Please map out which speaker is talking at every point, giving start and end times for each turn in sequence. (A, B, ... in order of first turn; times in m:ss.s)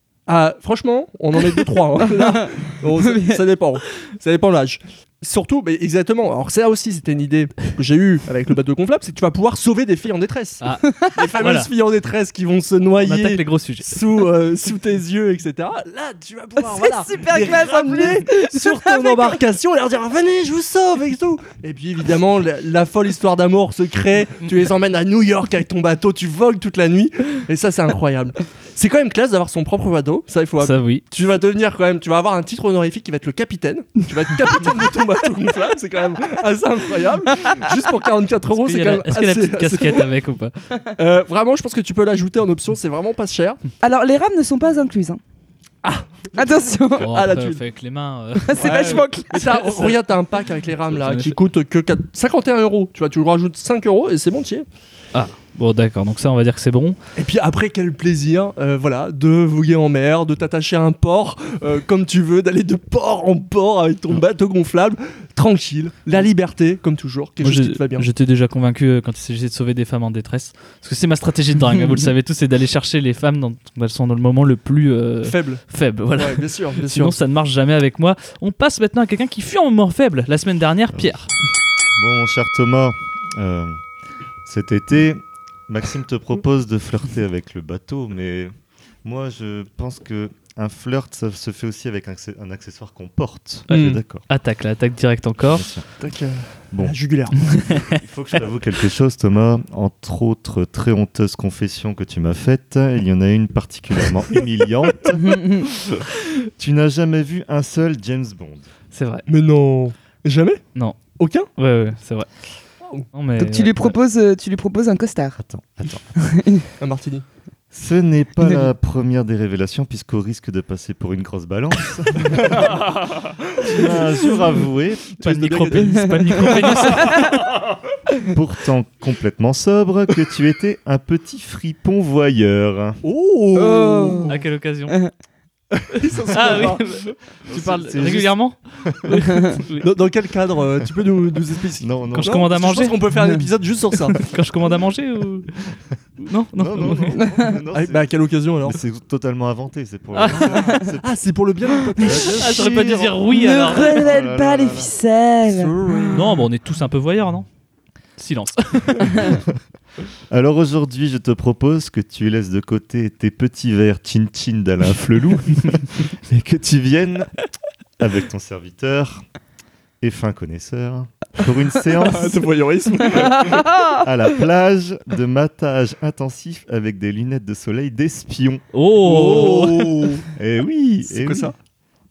0:00.3-0:40.1 A
0:02.0-0:03.4 B
0:10.6-0:11.7 C
0:10.8-0:11.2 B
0:13.0-0:14.0 C
0:16.6-0:19.4 B
0:30.6-0:31.0 C
0:38.5-0:40.7 C
0:40.9-0:43.6 A
0:43.8-0:45.2 B
0:45.8-0:47.6 A
0:46.4-0:47.2 B
0:47.0-0:49.0 C
0:48.4-0:50.0 B
0:48.6-0:54.6 A
0:50.9-0:51.4 C
0:55.1-0:57.0 C
0:57.2-1:08.1 A
1:07.4-1:21.3 C
1:15.2-1:15.6 A
1:16.2-1:17.2 A
1:22.0-1:23.8 D
1:24.4-1:28.5 D
1:29.0-1:34.2 D
1:33.7-1:34.0 A
1:34.3-1:35.6 C
1:35.5-1:35.9 D
1:36.0-1:37.5 A
1:37.5-1:48.7 D
1:45.2-1:45.7 B
1:48.9-1:49.2 C
1:49.3-1:50.6 A
1:51.2-1:51.5 A
1:51.6-1:52.3 C
1:53.1-1:54.0 C
1:53.4-1:55.4 B
1:55.4-1:56.2 D
1:56.2-1:56.7 B
1:56.8-1:57.2 A
1:57.7-2:03.0 D
2:02.7-2:04.2 A
2:03.6-2:05.2 D
2:05.2-2:07.0 A
2:05.2-2:07.4 C
2:06.7-2:07.3 B
2:08.2-2:13.0 D
2:13.0-2:14.4 A
2:13.5-2:15.1 B
2:14.3-2:15.0 C
2:15.7-2:17.1 A
2:16.3-2:19.8 C
2:17.4-2:19.4 D
2:19.8-2:24.2 A
2:21.8-2:22.5 D
2:22.1-2:23.0 C
2:24.1-2:25.5 C
2:26.2-2:27.2 C
2:26.5-2:31.2 D
2:27.7-2:28.8 A
2:30.1-2:30.8 C
2:30.4-2:30.8 B
2:30.7-2:32.7 A
2:32.0-2:34.9 D
2:32.2-2:34.1 C
2:33.3-2:36.4 B
2:35.4-2:36.4 A
2:36.1-2:37.5 C
2:38.2-2:39.4 C
2:39.1-2:39.5 D
2:40.3-2:47.3 D
2:48.0-2:49.2 D
2:50.0-2:52.4 D
2:52.0-2:53.8 A
2:53.5-2:54.0 B
2:53.5-2:58.6 D
2:58.7-3:00.0 C
2:59.0-3:00.3 A
3:00.3-3:01.5 D
3:01.0-3:01.5 A